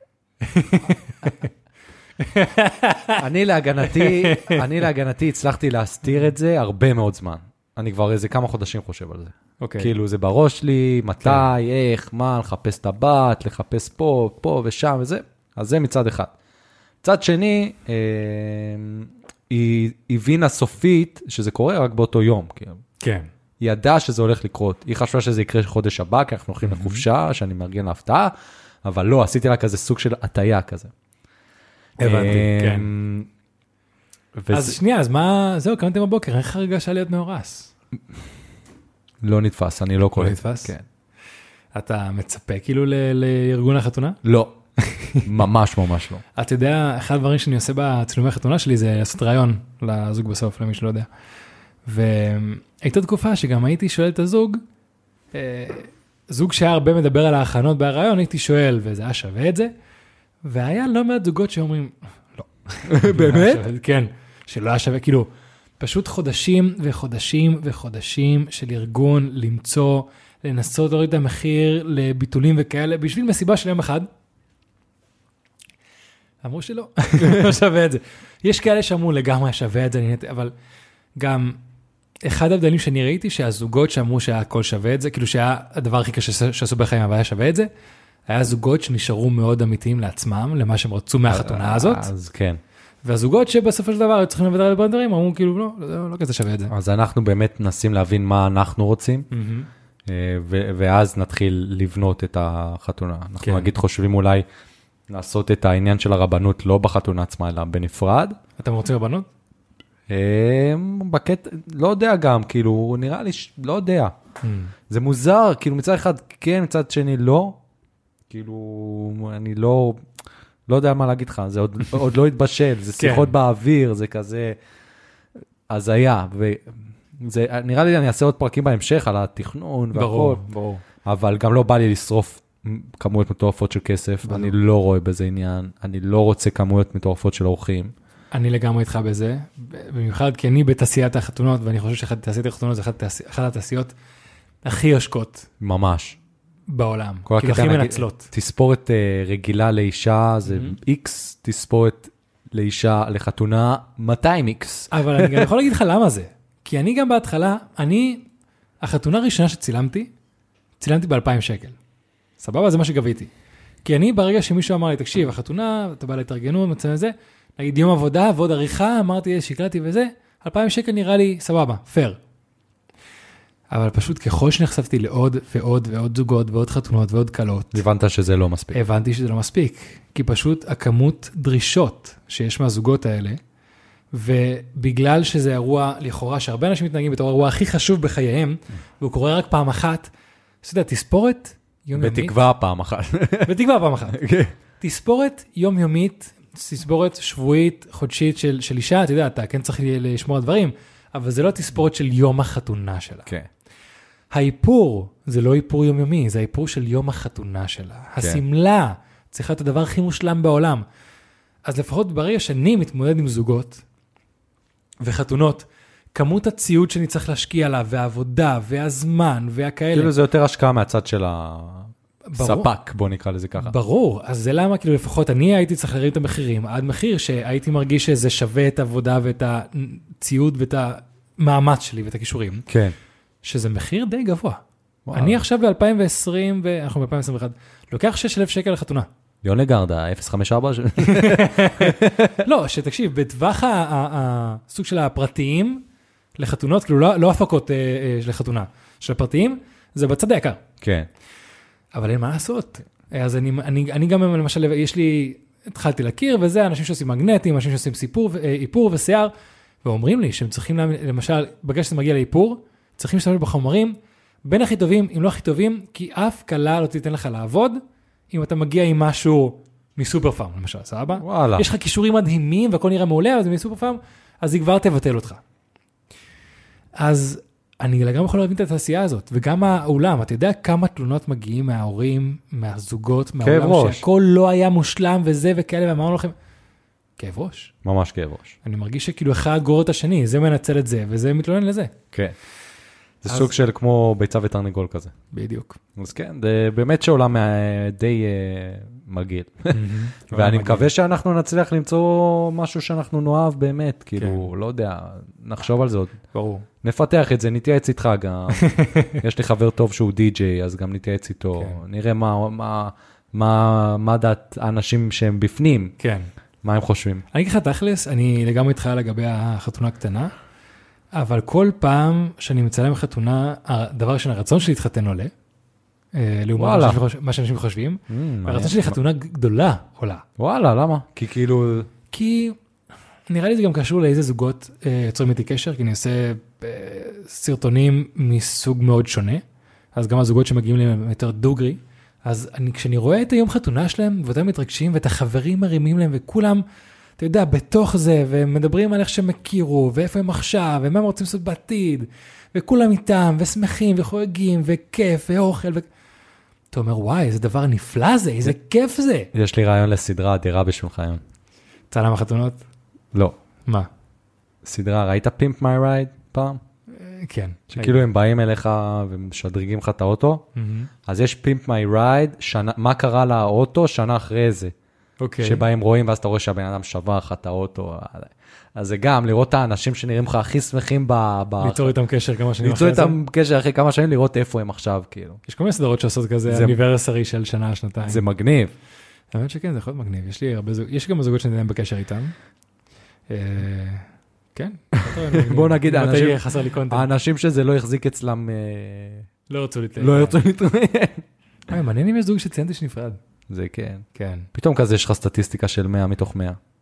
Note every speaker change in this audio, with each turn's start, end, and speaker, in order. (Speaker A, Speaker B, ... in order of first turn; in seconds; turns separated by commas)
Speaker A: 0.4-1.5, Speaker A: 2.2-3.2, Speaker B: 3.2-16.3, Speaker A: 3.8-4.6, Speaker A: 9.6-9.9, Speaker B: 17.0-22.8, Speaker A: 23.0-23.3, Speaker B: 23.6-28.3, Speaker A: 26.6-27.0, Speaker B: 28.8-30.9, Speaker A: 32.0-32.9, Speaker B: 32.0-33.3, Speaker B: 34.4-34.8, Speaker A: 34.5-37.7, Speaker B: 39.2-40.9, Speaker A: 40.1-40.7, Speaker A: 41.7-44.2, Speaker B: 44.2-44.5, Speaker A: 44.8-45.2, Speaker B: 45.2-46.2, Speaker A: 46.4-51.1, Speaker A: 51.9-54.6, Speaker A: 55.3-59.7, Speaker A: 60.4-65.3, Speaker B: 62.9-63.6, Speaker A: 65.8-74.1, Speaker A: 76.4-80.5, Speaker A: 81.2-81.6, Speaker A: 82.2-87.7, Speaker A: 88.3-92.1, Speaker B: 91.3-92.6, Speaker A: 93.0-96.7, Speaker B: 96.7-99.3, Speaker A: 99.3-99.7, Speaker B: 100.1-104.4, Speaker A: 103.4-103.7, Speaker B: 105.1-108.4, Speaker A: 108.6-109.3, Speaker B: 110.1-114.1, Speaker A: 114.4-114.7, Speaker B: 114.9-117.6, Speaker B: 118.3-120.0, Speaker B: 120.7-124.6, Speaker A: 123.0-123.3, Speaker B: 125.7-130.4, Speaker A: 129.9-130.8, Speaker B: 131.0-137.9, Speaker A: 134.2-134.6, Speaker A: 138.3-143.9, Speaker A: 144.6-145.5, Speaker B: 145.6-146.2, Speaker A: 146.7-148.3, Speaker B: 147.2-155.5, Speaker A: 150.4-150.8, Speaker A: 154.9-158.3, Speaker A: 158.8-160.1, Speaker A: 160.8-161.8, Speaker A: 162.4-163.3, Speaker A: 163.8-172.2, Speaker A: 173.7-177.8, Speaker B: 177.7-178.8, Speaker A: 178.7-183.4, Speaker A: 184.1-190.1, Speaker A: 190.6-192.4, Speaker B: 192.0-193.6, Speaker A: 193.4-194.2, Speaker B: 194.1-194.5, Speaker A: 194.8-203.3, Speaker A: 204.3-210.8, Speaker A: 211.7-213.8, Speaker A: 215.0-220.1, Speaker B: 219.9-223.8, Speaker A: 222.3-222.7, Speaker A: 223.6-232.6, Speaker B: 232.7-232.9, Speaker A: 233.4-234.6, Speaker B: 235.1-235.4, Speaker A: 235.1-239.1, Speaker B: 239.4-242.4, Speaker A: 241.0-245.8, Speaker A: 246.4-250.6, Speaker B: 250.8-251.1, Speaker A: 251.9-259.3, Speaker A: 259.8-267.8, Speaker A: 268.3-275.4, Speaker B: 271.2-271.6, Speaker A: 276.9-286.3, Speaker B: 283.4-284.1, Speaker A: 287.2-287.7, Speaker B: 287.8-288.6, Speaker A: 288.6-291.9, Speaker B: 293.2-295.1, Speaker A: 293.3-293.5, Speaker A: 295.3-295.8, Speaker B: 295.9-306.1, Speaker A: 299.7-300.9, Speaker A: 304.2-304.5, Speaker A: 306.3-306.6, Speaker B: 306.8-315.9, Speaker A: 308.5-309.2, Speaker A: 316.0-316.3, Speaker B: 316.6-317.2, Speaker A: 317.3-320.3, Speaker A: 321.1-325.3, Speaker A: 326.1-330.2, Speaker B: 326.6-327.0, Speaker B: 328.1-328.9, Speaker B: 330.4-331.9, Speaker A: 332.1-332.6, Speaker A: 333.3-339.4, Speaker A: 339.9-346.6, Speaker A: 347.2-355.9, Speaker A: 356.7-359.3, Speaker B: 359.3-361.2, Speaker A: 361.9-362.6, Speaker B: 364.6-366.6, Speaker A: 366.9-368.0, Speaker B: 367.7-370.4, Speaker A: 370.5-370.9, Speaker B: 371.1-374.7, Speaker A: 375.2-375.7, Speaker B: 375.4-381.9, Speaker A: 381.6-383.1, Speaker B: 382.6-385.4, Speaker A: 385.5-388.2, Speaker B: 386.5-386.8, Speaker B: 388.0-388.7, Speaker A: 389.3-392.3, Speaker A: 393.3-397.1, Speaker B: 395.0-399.3, Speaker A: 399.5-400.4, Speaker B: 400.0-401.2, Speaker A: 401.7-403.2, Speaker B: 403.5-406.6, Speaker A: 404.1-404.5